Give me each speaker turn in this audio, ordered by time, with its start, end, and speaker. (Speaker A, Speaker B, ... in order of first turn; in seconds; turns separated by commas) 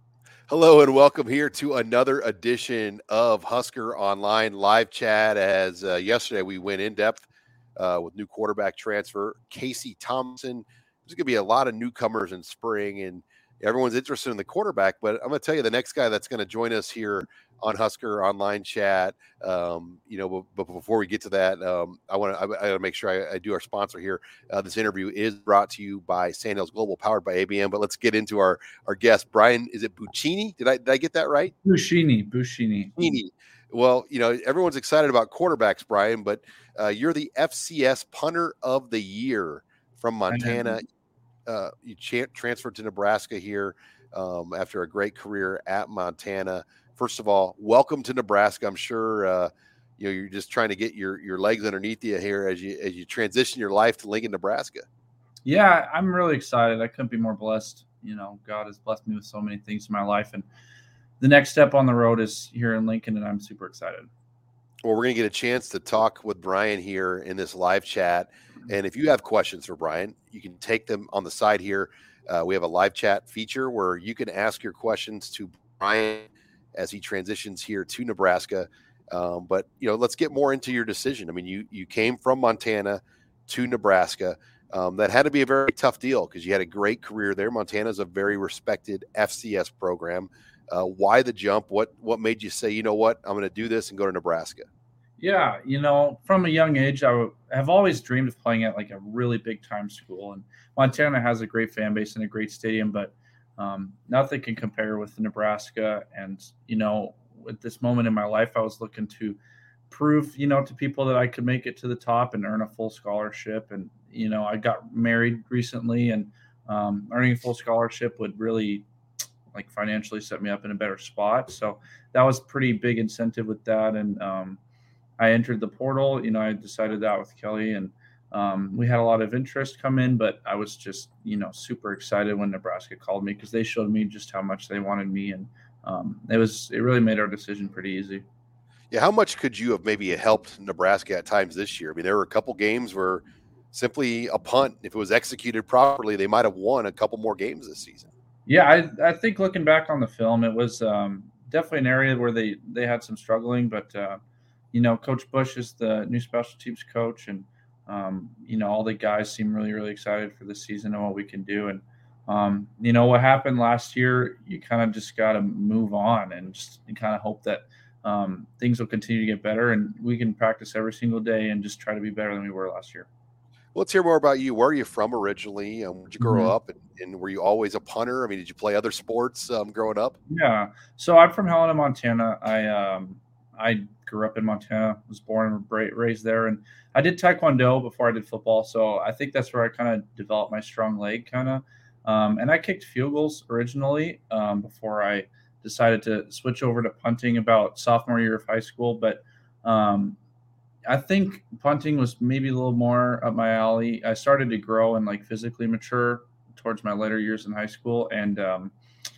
Speaker A: 0.5-31.5, Speaker B: 31.6-33.0, Speaker A: 33.0-40.9, Speaker B: 40.3-40.8, Speaker A: 41.5-54.9, Speaker B: 55.5-60.5, Speaker B: 61.2-64.1, Speaker A: 64.8-94.7, Speaker B: 95.2-109.4, Speaker B: 109.9-118.8, Speaker B: 119.5-124.6, Speaker B: 125.2-138.2, Speaker A: 138.9-148.1, Speaker B: 148.5-154.2, Speaker B: 154.7-173.1, Speaker A: 173.7-180.2, Speaker B: 176.2-176.5, Speaker B: 180.3-200.2, Speaker B: 200.9-208.7